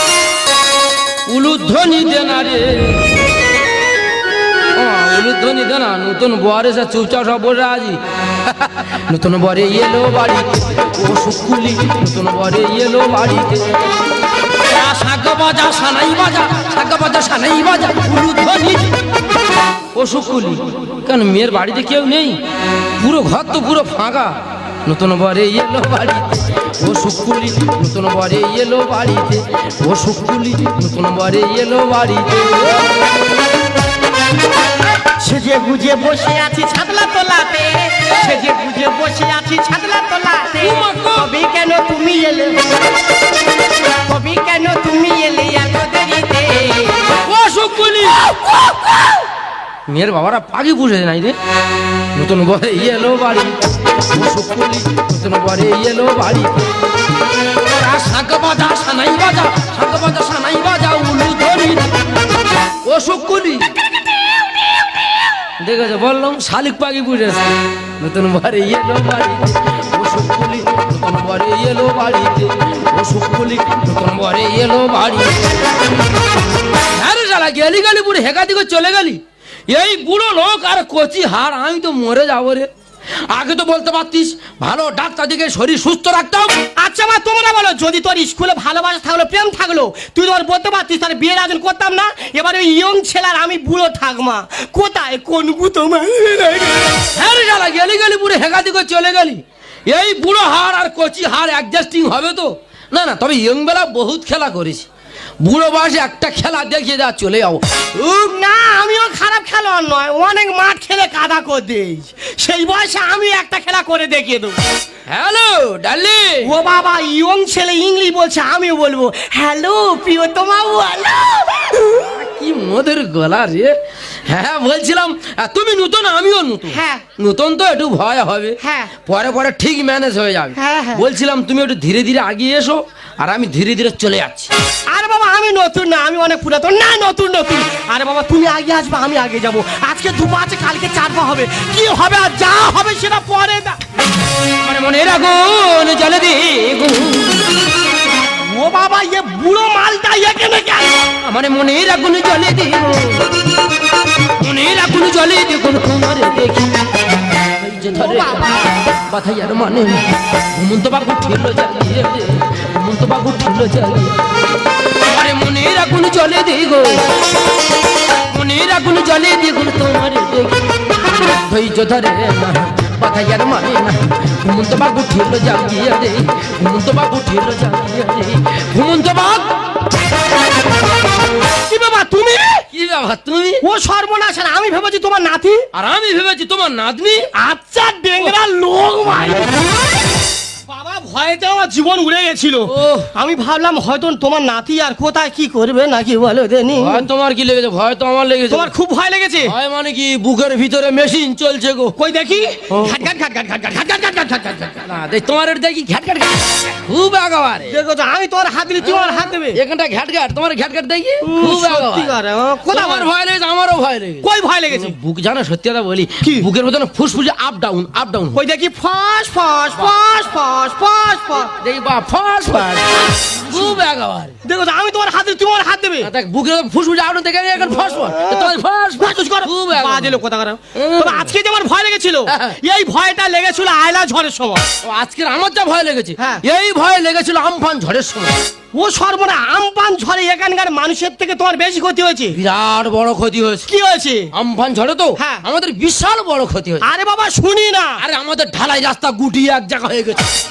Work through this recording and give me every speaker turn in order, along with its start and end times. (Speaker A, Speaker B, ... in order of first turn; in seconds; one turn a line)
Speaker A: 1.2-3.0
Speaker A: 4.8-13.8
Speaker A: 14.7-18.9
Speaker A: 19.9-22.4
Speaker A: 23.0-32.9
Speaker B: 35.2-42.6
Speaker A: 40.6-41.3
Speaker B: 44.0-47.0
Speaker A: 47.2-48.2
Speaker A: 49.9-51.4
Speaker A: 52.1-56.7
Speaker A: 57.6-61.9
Speaker A: 62.8-63.7
Speaker A: 65.6-75.4
Speaker A: 76.9-82.7
Speaker A: 83.3-86.6
Speaker B: 86.8-97.0
Speaker A: 97.1-104.9
Speaker A: 105.4-107.6
Speaker B: 108.0-114.5
Speaker A: 115.1-116.5
Speaker B: 116.4-122.0
Speaker A: 121.9-123.7
Speaker A: 124.3-134.5
Speaker B: 126.7-127.0
Speaker B: 128.6-128.9
Speaker B: 130.6-131.1
Speaker B: 134.9-143.8
Speaker A: 144.6-147.5
Speaker B: 148.5-151.0
Speaker A: 151.2-153.3
Speaker A: 154.4-156.8
Speaker A: 157.6-158.5
Speaker B: 157.9-158.7
Speaker A: 159.1-164.2
Speaker A: 165.1-167.0
Speaker A: 168.3-179.5
Speaker B: 181.7-182.7
Speaker A: 182.7-183.6
Speaker B: 183.6-185.7
Speaker A: 185.7-187.3
Speaker B: 187.4-189.7
Speaker B: 190.7-197.1
Speaker A: 192.7-193.1
Speaker A: 196.8-198.7
Speaker B: 198.5-199.5
Speaker A: 199.4-201.9
Speaker B: 202.0-204.8
Speaker A: 202.7-203.0
Speaker A: 204.8-207.8
Speaker B: 207.7-209.6
Speaker A: 208.8-212.1
Speaker B: 211.2-213.1
Speaker A: 212.7-218.4
Speaker B: 214.2-214.9
Speaker B: 216.2-216.5
Speaker B: 218.3-221.5
Speaker A: 221.6-224.3
Speaker B: 224.4-226.1
Speaker A: 226.0-230.2
Speaker B: 228.0-234.6
Speaker A: 230.7-231.3
Speaker A: 232.3-232.6
Speaker A: 234.8-238.3
Speaker B: 236.2-236.4
Speaker B: 238.7-242.4
Speaker A: 242.3-243.7
Speaker B: 243.7-244.3
Speaker A: 244.3-246.8
Speaker B: 245.2-245.4
Speaker B: 246.8-248.0
Speaker A: 248.0-250.3